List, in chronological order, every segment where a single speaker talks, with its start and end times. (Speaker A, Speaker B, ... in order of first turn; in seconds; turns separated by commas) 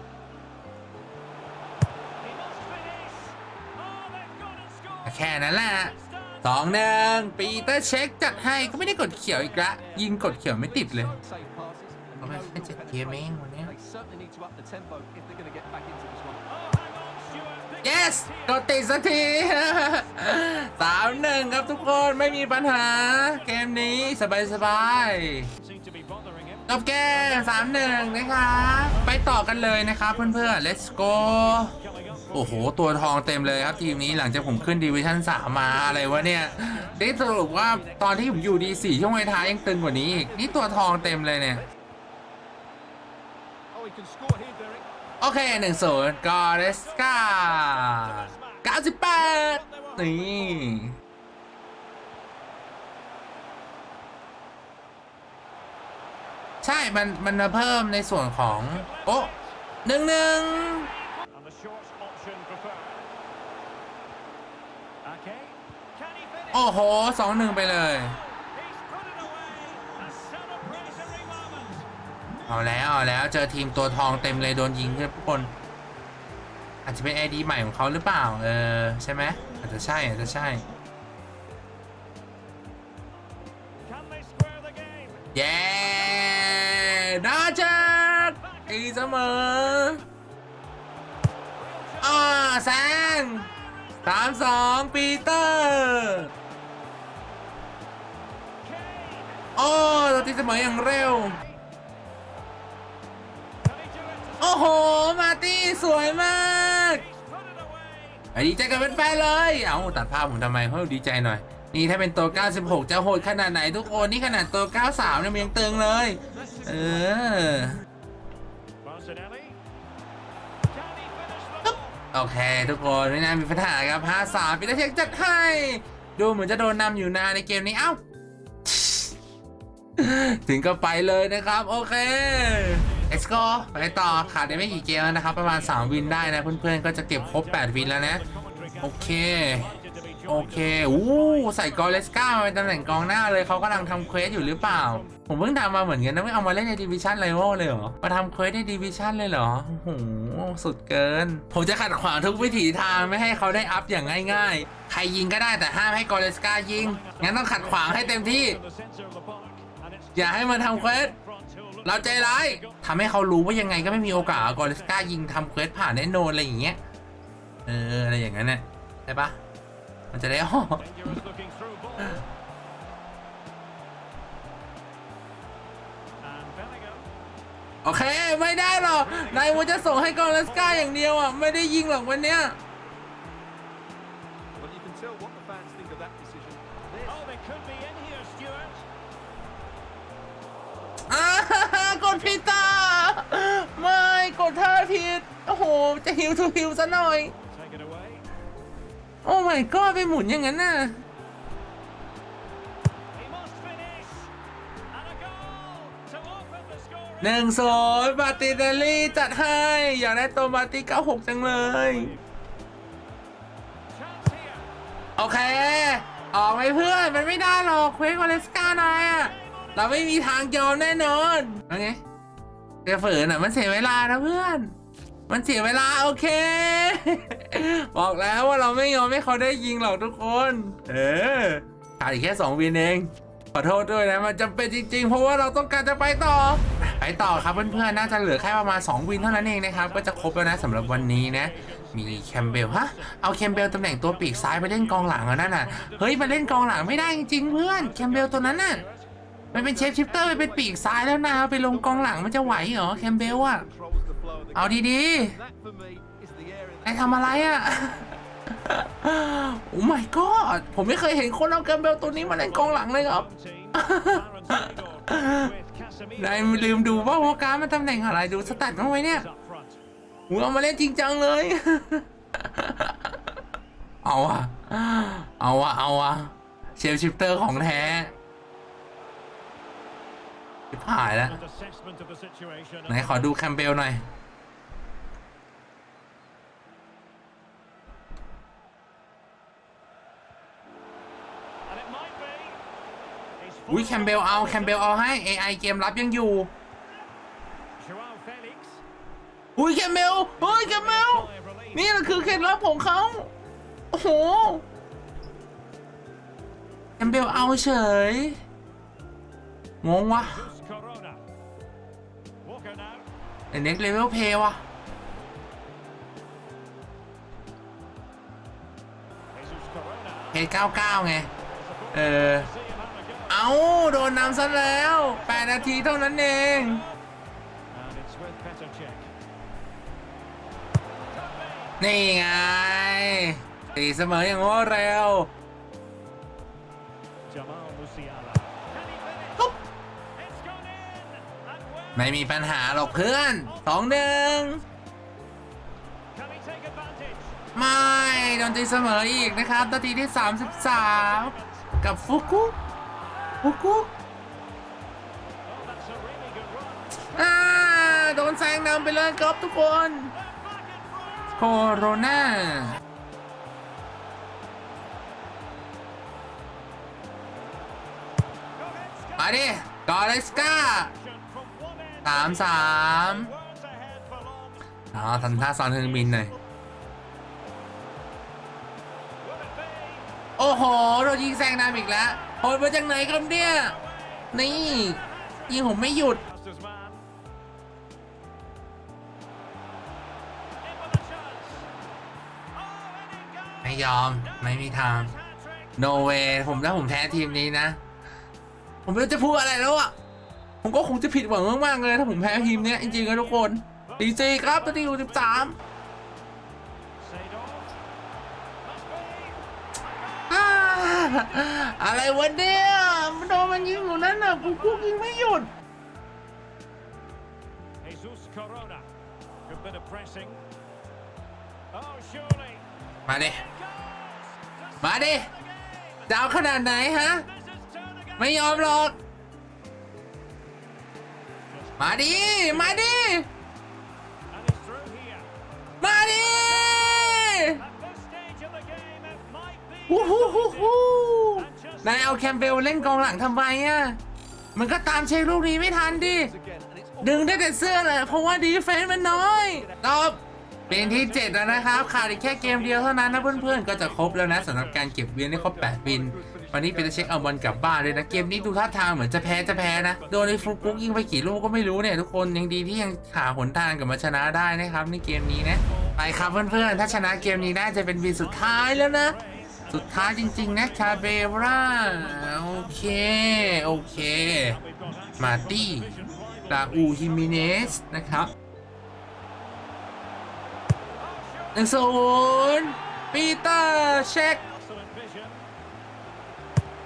Speaker A: 2.2-8.0, Speaker B: 5.0-11.2, Speaker C: 8.2-16.4, Speaker B: 12.2-13.7, Speaker A: 16.5-18.8, Speaker B: 17.8-25.5, Speaker A: 21.1-37.5, Speaker B: 26.7-31.7, Speaker B: 32.3-41.6, Speaker C: 35.8-41.8, Speaker C: 43.7-44.9, Speaker B: 45.2-50.9, Speaker A: 45.5-50.7, Speaker B: 56.6-59.3, Speaker A: 58.5-59.6, Speaker B: 59.8-60.9, Speaker A: 60.6-63.1, Speaker A: 65.0-71.9, Speaker B: 66.5-68.2, Speaker B: 72.5-75.5, Speaker A: 73.9-75.4, Speaker B: 76.8-80.6, Speaker A: 83.8-90.0, Speaker B: 85.3-90.0, Speaker A: 91.5-94.4, Speaker B: 92.0-93.5, Speaker B: 94.0-96.3, Speaker A: 98.6-101.5, Speaker B: 99.5-101.4, Speaker A: 103.6-108.3, Speaker B: 104.4-107.0, Speaker B: 108.3-117.8, Speaker A: 112.3-115.8, Speaker C: 116.3-117.0, Speaker A: 118.8-119.6, Speaker A: 120.7-122.0, Speaker B: 121.6-128.0, Speaker A: 122.6-125.5, Speaker B: 128.6-129.1, Speaker B: 130.0-138.2, Speaker A: 132.4-145.1, Speaker B: 138.8-139.8, Speaker B: 140.3-158.6, Speaker A: 152.1-154.7, Speaker A: 156.7-162.8, Speaker B: 160.2-161.1, Speaker B: 161.8-166.8, Speaker A: 163.6-165.1, Speaker B: 167.7-169.4, Speaker B: 170.1-170.8, Speaker A: 170.8-172.2, Speaker A: 176.2-177.1, Speaker B: 177.8-182.6, Speaker A: 178.8-181.0, Speaker C: 184.5-187.2, Speaker A: 187.1-188.9, Speaker B: 191.1-197.3, Speaker A: 191.7-192.9, Speaker A: 197.5-198.2, Speaker B: 199.2-201.0, Speaker A: 203.1-204.3, Speaker A: 204.9-209.3, Speaker B: 207.2-212.1, Speaker A: 211.3-212.2, Speaker A: 213.9-214.7, Speaker B: 215.2-222.0, Speaker A: 218.6-220.3, Speaker B: 222.8-224.7, Speaker B: 225.3-248.8, Speaker A: 236.8-249.1, Speaker C: 249.5-257.7, Speaker B: 249.5-253.6, Speaker B: 254.5-255.3, Speaker B: 256.8-265.5, Speaker A: 262.0-269.8, Speaker B: 266.2-269.3, Speaker B: 270.3-273.1, Speaker B: 274.0-278.1, Speaker A: 277.6-278.0, Speaker B: 280.7-281.4, Speaker A: 281.2-283.4, Speaker B: 282.9-284.0, Speaker A: 291.6-292.6, Speaker A: 293.4-295.0, Speaker B: 293.7-296.5, Speaker A: 297.8-298.8, Speaker B: 299.6-303.3, Speaker A: 300.4-302.5, Speaker B: 303.9-304.6, Speaker B: 307.0-308.4, Speaker B: 309.8-310.4, Speaker A: 310.1-311.2, Speaker A: 312.4-313.1, Speaker B: 313.5-314.6, Speaker A: 319.3-320.5, Speaker B: 320.3-321.3, Speaker A: 321.4-326.9, Speaker B: 321.9-322.5, Speaker B: 323.3-326.9, Speaker A: 327.7-329.1, Speaker A: 331.1-331.8, Speaker B: 331.8-335.3, Speaker A: 333.6-334.4, Speaker A: 337.2-339.5, Speaker A: 340.1-342.8, Speaker B: 341.9-344.6, Speaker A: 343.3-344.6, Speaker A: 346.1-347.4, Speaker B: 347.5-352.6, Speaker A: 350.3-353.6, Speaker B: 353.4-353.9, Speaker A: 355.4-357.0, Speaker B: 357.1-360.1, Speaker A: 360.1-362.7, Speaker B: 361.4-362.8, Speaker A: 368.6-376.4, Speaker B: 369.2-370.9, Speaker B: 372.0-373.3, Speaker B: 374.9-376.3, Speaker A: 379.2-380.1, Speaker B: 380.4-383.8, Speaker A: 381.9-382.6, Speaker A: 383.5-387.0, Speaker B: 384.3-386.2, Speaker A: 390.6-391.7, Speaker A: 392.5-397.5, Speaker B: 393.6-395.1, Speaker B: 395.8-397.8, Speaker B: 398.9-399.9, Speaker B: 400.6-405.6, Speaker A: 401.9-405.6, Speaker A: 407.0-407.8, Speaker A: 408.6-412.4, Speaker B: 410.3-415.5, Speaker A: 413.7-415.1, Speaker A: 417.8-418.9, Speaker A: 419.5-420.4, Speaker A: 421.7-422.6, Speaker B: 423.1-423.4, Speaker A: 423.2-428.9, Speaker B: 424.8-425.3, Speaker B: 426.1-427.3, Speaker B: 428.2-429.0, Speaker A: 431.3-433.1, Speaker B: 431.8-433.3, Speaker A: 434.3-435.3, Speaker B: 435.8-437.6, Speaker A: 435.9-440.8, Speaker B: 439.9-444.0, Speaker A: 441.3-443.4, Speaker B: 444.5-446.3, Speaker C: 445.8-449.8, Speaker B: 447.0-469.1, Speaker A: 450.7-455.0, Speaker C: 455.3-459.2, Speaker A: 459.1-461.2, Speaker A: 465.6-477.8, Speaker B: 469.7-474.6, Speaker B: 475.2-475.9, Speaker B: 476.5-478.3, Speaker A: 481.0-485.5, Speaker B: 481.5-484.4